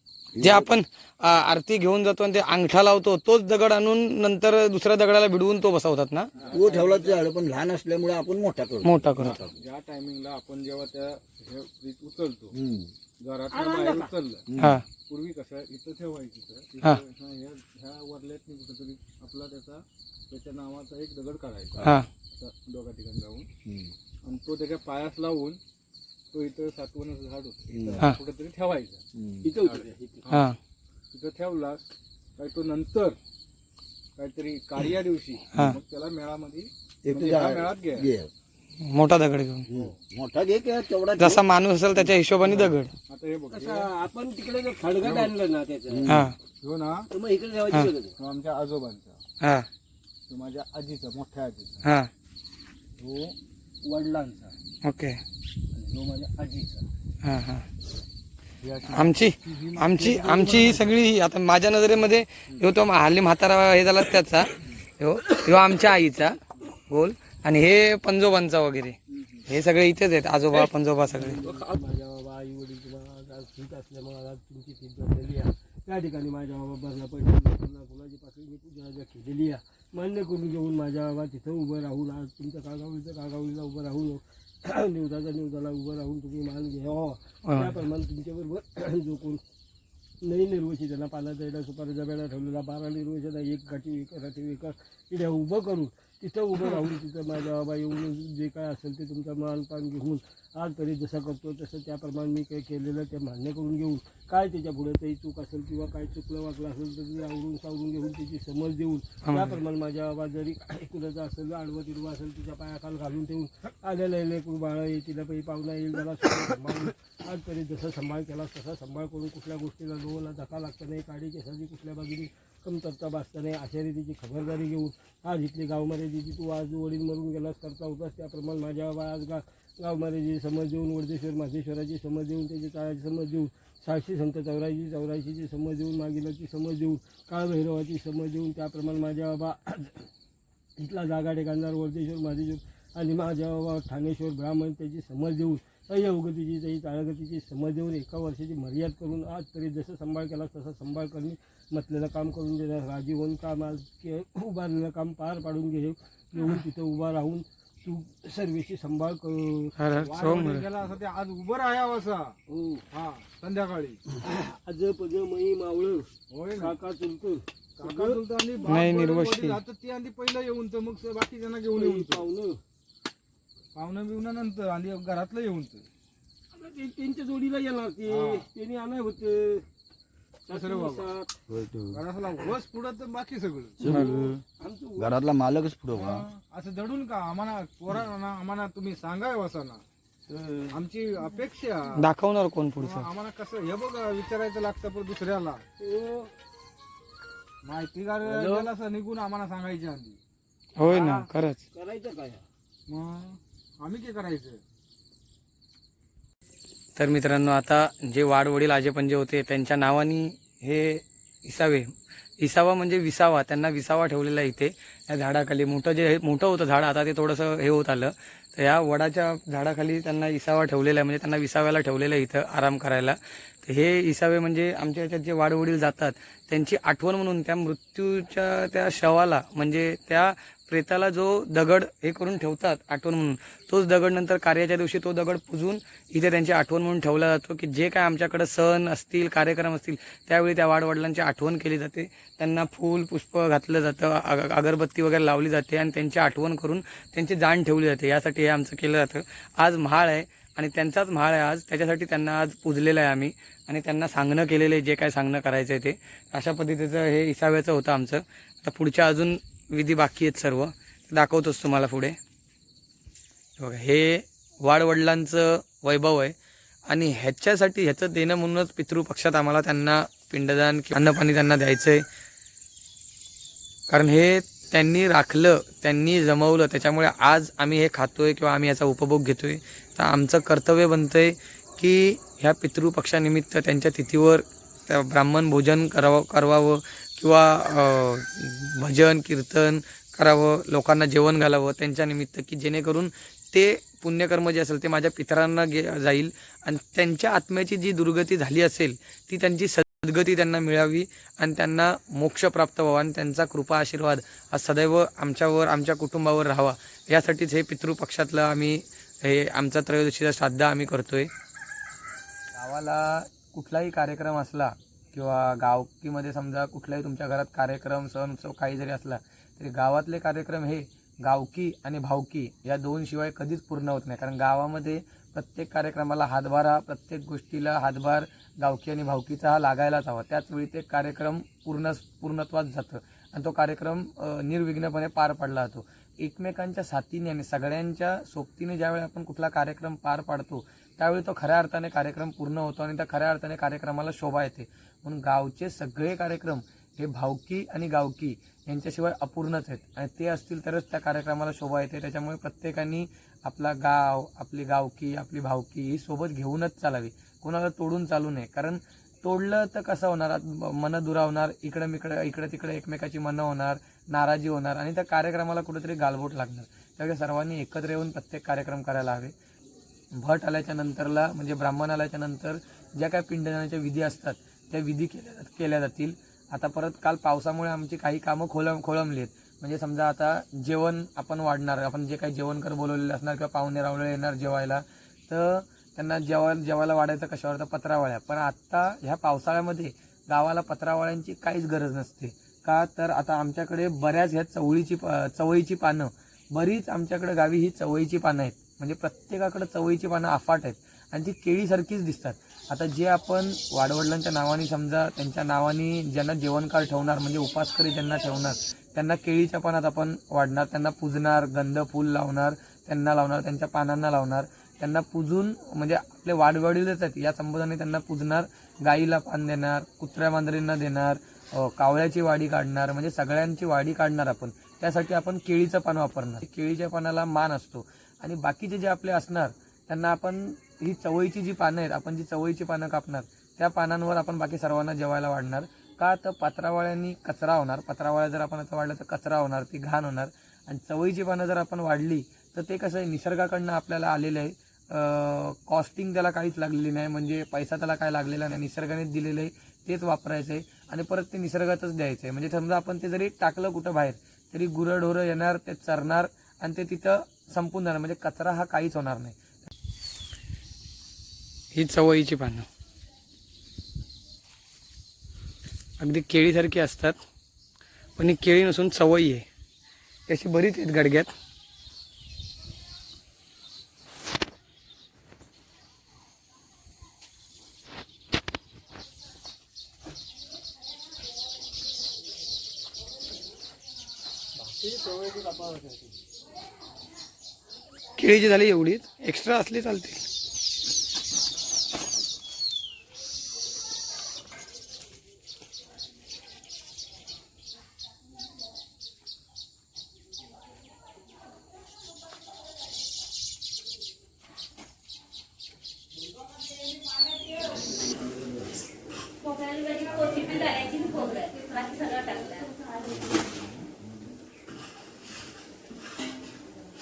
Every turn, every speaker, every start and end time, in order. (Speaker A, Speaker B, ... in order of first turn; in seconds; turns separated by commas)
Speaker A: 0.3-0.7, Speaker B: 0.4-6.3, Speaker C: 6.4-7.3, Speaker A: 6.5-9.5, Speaker B: 8.8-9.4, Speaker C: 9.2-12.5, Speaker A: 12.5-12.9, Speaker C: 13.2-14.5, Speaker D: 13.5-14.1, Speaker A: 14.5-14.8, Speaker B: 14.6-14.8, Speaker C: 15.1-23.5, Speaker A: 23.6-23.9, Speaker C: 24.2-25.6, Speaker C: 26.3-29.0, Speaker A: 27.7-28.0, Speaker A: 29.1-29.5, Speaker D: 29.4-30.3, Speaker C: 29.6-30.5, Speaker B: 30.3-30.6, Speaker C: 31.1-31.8, Speaker C: 32.4-33.2, Speaker C: 34.2-38.1, Speaker B: 35.5-35.8, Speaker A: 37.0-38.3, Speaker B: 38.8-39.6, Speaker A: 39.7-41.4, Speaker B: 41.2-42.9, Speaker C: 42.5-43.9, Speaker D: 43.5-46.1, Speaker C: 45.0-45.3, Speaker A: 45.9-46.3, Speaker B: 46.1-46.4, Speaker C: 46.6-47.1, Speaker D: 47.1-48.1, Speaker C: 48.2-49.2, Speaker B: 49.4-49.7, Speaker C: 50.3-51.8, Speaker B: 51.8-52.1, Speaker C: 53.0-54.5, Speaker B: 54.8-55.2, Speaker C: 55.7-56.9, Speaker B: 57.2-57.7, Speaker C: 58.6-60.9, Speaker B: 58.9-71.4, Speaker C: 69.1-69.4, Speaker D: 71.1-89.4, Speaker B: 87.4-87.8, Speaker D: 90.2-140.1, Speaker B: 109.2-109.6, Speaker D: 140.8-159.7, Speaker B: 159.8-160.7, Speaker C: 160.0-162.3, Speaker D: 162.5-162.8, Speaker C: 162.9-164.0, Speaker D: 164.2-168.2, Speaker C: 166.3-166.8, Speaker C: 167.8-172.3, Speaker B: 168.7-169.6, Speaker D: 171.7-172.6, Speaker C: 173.7-175.8, Speaker D: 176.5-179.6, Speaker C: 178.1-178.4, Speaker D: 180.5-181.3, Speaker C: 180.5-181.1, Speaker A: 181.5-182.0, Speaker C: 181.9-183.8, Speaker A: 183.8-184.4, Speaker D: 183.9-185.2, Speaker A: 185.0-186.3, Speaker C: 185.9-189.8, Speaker A: 190.3-190.6, Speaker C: 190.7-192.0, Speaker B: 192.0-193.1, Speaker C: 192.8-195.6, Speaker D: 195.8-196.3, Speaker C: 197.6-200.2, Speaker D: 198.2-198.7, Speaker B: 200.8-201.6, Speaker D: 200.9-202.4, Speaker C: 202.9-204.6, Speaker B: 206.9-262.2, Speaker B: 263.6-266.4, Speaker B: 266.9-272.0, Speaker B: 273.9-311.3, Speaker B: 312.5-369.3, Speaker B: 370.1-459.4, Speaker B: 461.7-462.7, Speaker B: 466.0-467.2, Speaker B: 468.2-469.5, Speaker B: 470.3-471.3, Speaker D: 484.6-486.0, Speaker B: 488.2-490.2, Speaker E: 509.4-513.3